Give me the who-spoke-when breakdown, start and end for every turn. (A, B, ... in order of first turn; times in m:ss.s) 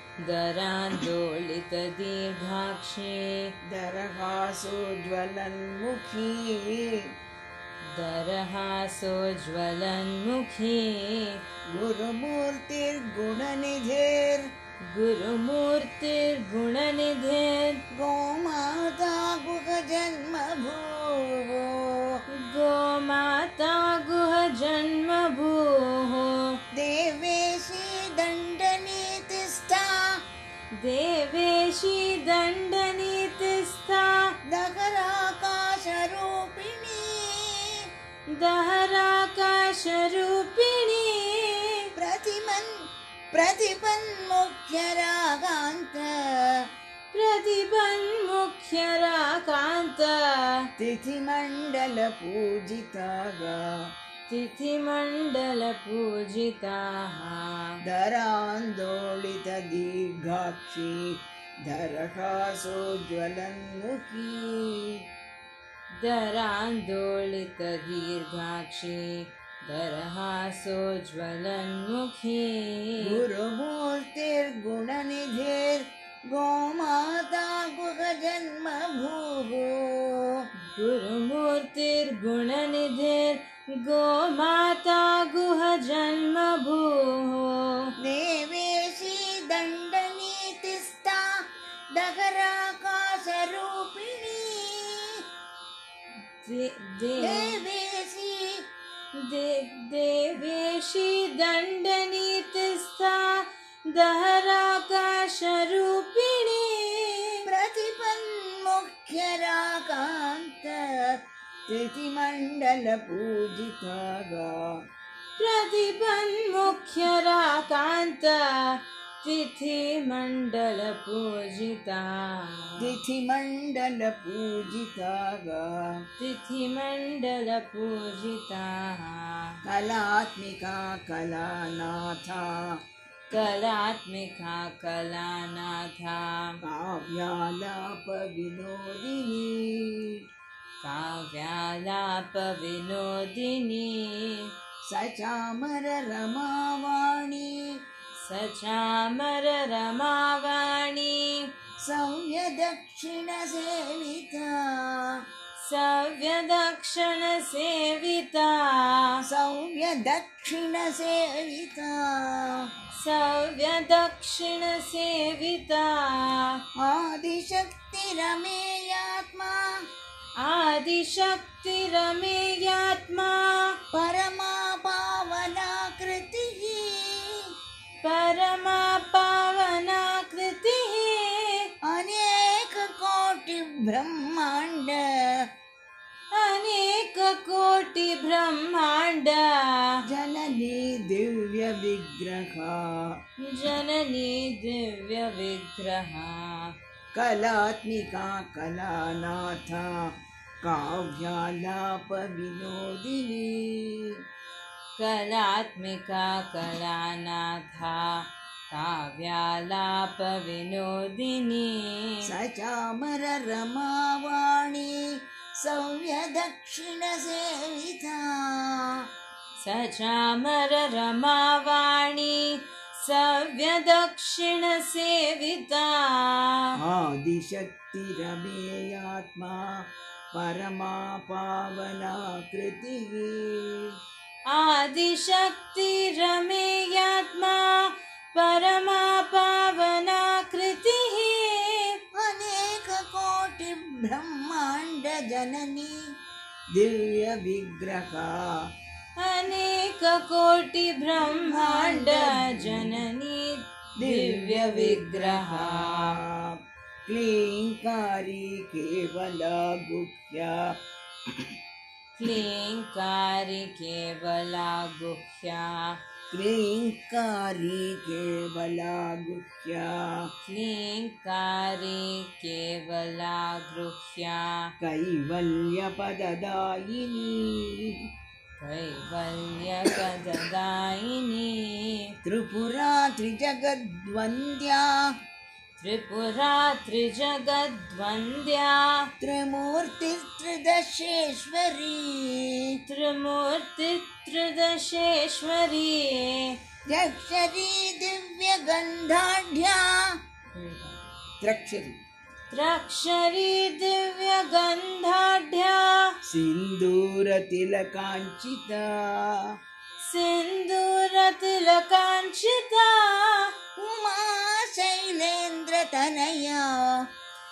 0:00.2-0:03.5 A
0:03.7-0:07.0 B
0:07.9-0:11.4 A
0:11.7-0:14.5 B
0:14.8-0:17.8 A
0:17.9-0:22.2 B
0:22.3-0:26.6 A
0:26.7-0:30.2 B
0:30.8-0:34.4 A
0:34.5-0:37.9 B
0:38.3-0:41.9 A
0:42.0-0:46.7 B
0:47.1-0:50.7 A
0:50.8-0:53.8 B
0:54.3-0:57.8 A
0:57.8-1:05.0 B
1:06.0-1:13.2 A
1:13.0-1:20.4 B
1:20.7-1:27.9 A
1:28.0-1:35.2 B
1:36.4-1:37.6 A
1:37.2-1:38.6 B
1:39.1-1:47.5 A
1:47.5-1:54.8 B
1:55.4-2:02.9 A
2:02.8-2:06.0 B
2:06.2-2:09.6 A
2:09.6-2:12.8 B
2:13.3-2:16.6 A
2:16.6-2:20.2 B
2:20.8-2:24.5 A
2:24.8-2:27.8 B
2:28.2-2:31.5 A
2:31.8-2:35.2 B
2:35.6-2:39.2 A
2:39.2-2:42.7 B
2:42.9-2:46.6 A
2:46.8-2:49.8 B
2:50.4-2:53.8 A
2:53.9-2:57.5 B
2:58.0-3:01.7 A
3:01.8-3:05.5 B
3:06.3-3:10.0 A
3:10.0-3:13.2 B
3:13.4-3:16.8 A
3:17.1-3:24.2 B
3:25.0-3:32.3 A
3:32.2-3:39.0 B
3:39.6-3:46.7 A
3:46.8-3:54.0 B
3:54.5-4:02.0 A
4:02.1-4:06.0 B
4:06.7-4:08.7 B
4:09.2-4:16.2 A
4:11.2-4:13.0 B
4:14.0-4:20.8 B
4:22.2-4:26.0 A
4:26.3-4:30.3 B
4:30.5-4:34.7 A
4:34.8-4:38.1 B
4:38.6-4:42.2 A
4:42.2-4:45.1 B
4:45.8-4:49.1 A
4:49.2-4:52.8 B
4:52.9-4:56.6 A
4:56.9-5:00.2 B
5:00.6-5:01.0 A
5:01.4-5:02.0 B
5:02.5-5:06.2 A
5:06.3-5:09.5 B
5:10.0-5:13.5 A
5:13.8-5:17.1 B